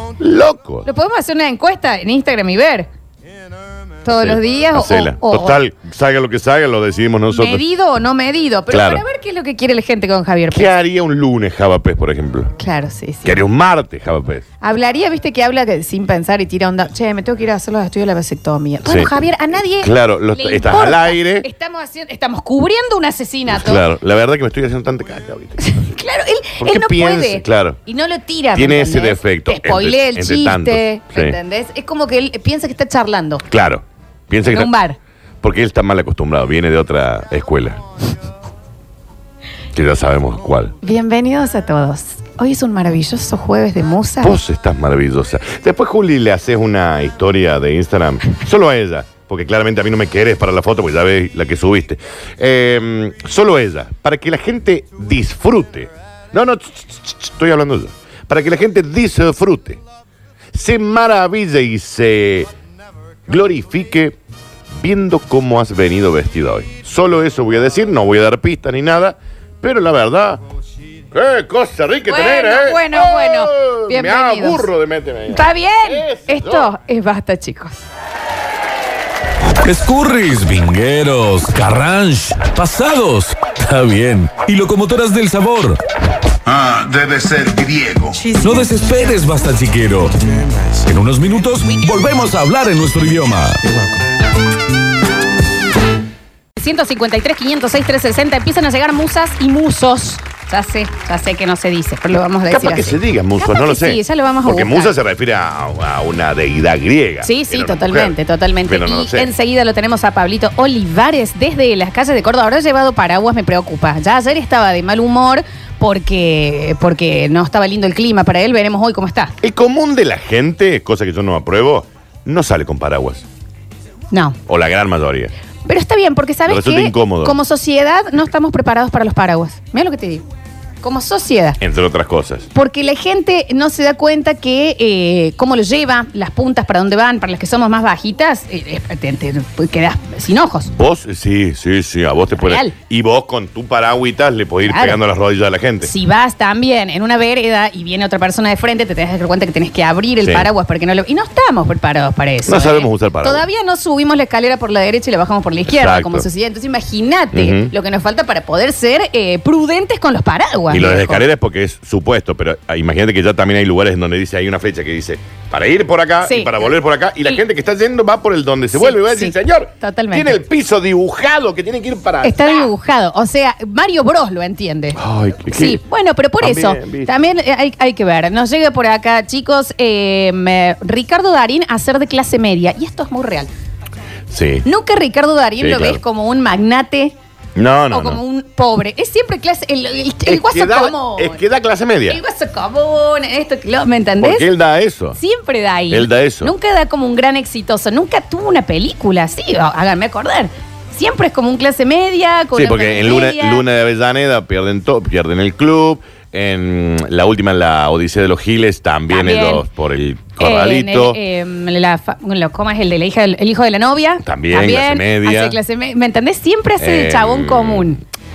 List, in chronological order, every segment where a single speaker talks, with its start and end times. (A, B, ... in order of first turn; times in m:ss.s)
0:00.2-0:00.9 A
0:00.8-0:02.9 B
0:04.0-0:05.6 B
0:04.2-0:07.6 A
0:07.3-0:10.7 B
0:08.7-0:09.0 A
0:10.5-0:12.5 A
0:12.6-0:13.4 B
0:13.2-0:14.4 A
0:14.6-0:23.8 B
0:18.8-0:19.2 A
0:19.7-0:21.5 A
0:23.5-0:25.9 A
0:25.6-0:33.4 B
0:26.6-0:27.8 A
0:28.5-0:31.4 A
0:33.5-0:34.7 A
0:34.4-0:35.0 B
0:35.4-0:37.8 A
0:39.7-0:40.8 A
0:40.8-0:44.4 B
0:44.2-0:59.8 A
1:00.5-1:02.5 A
1:03.3-1:04.2 A
1:04.7-1:10.4 A
1:11.1-1:16.7 A
1:12.0-1:14.7 B
1:15.3-1:17.8 B
1:19.6-1:25.8 C
1:26.4-1:30.1 C
1:30.7-1:33.6 C
1:36.6-1:44.9 B
1:42.5-1:49.3 A
1:47.2-1:59.3 B
1:59.4-2:03.2 A
2:04.1-2:04.4 B
2:04.4-2:05.3 A
2:05.6-2:10.2 B
2:06.4-2:07.4 A
2:10.8-2:11.6 B
2:11.6-2:12.5 A
2:12.5-2:20.7 B
2:20.7-2:25.9 A
2:22.3-2:22.7 B
2:24.6-2:25.0 B
2:25.8-2:41.2 B
2:30.2-2:30.5 A
2:32.4-2:33.4 A
2:35.7-2:36.2 A
2:37.3-2:37.7 A
2:40.7-2:52.7 A
2:46.2-2:46.7 B
2:48.7-2:50.4 B
2:52.2-2:55.0 B
2:54.9-2:55.8 A
2:55.5-3:03.5 B
2:56.4-2:57.1 A
3:04.3-3:04.6 A
3:04.6-3:07.2 B
3:05.6-3:06.0 A
3:07.6-3:08.2 A
3:07.9-3:11.4 B
3:10.2-3:12.2 A
3:12.1-3:14.5 B
3:14.2-3:15.2 A
3:15.1-3:23.6 B
3:15.9-3:16.5 A
3:22.5-3:31.2 A
3:29.1-3:29.6 B
3:30.4-3:38.0 B
3:34.2-3:35.6 A
3:36.8-3:37.9 A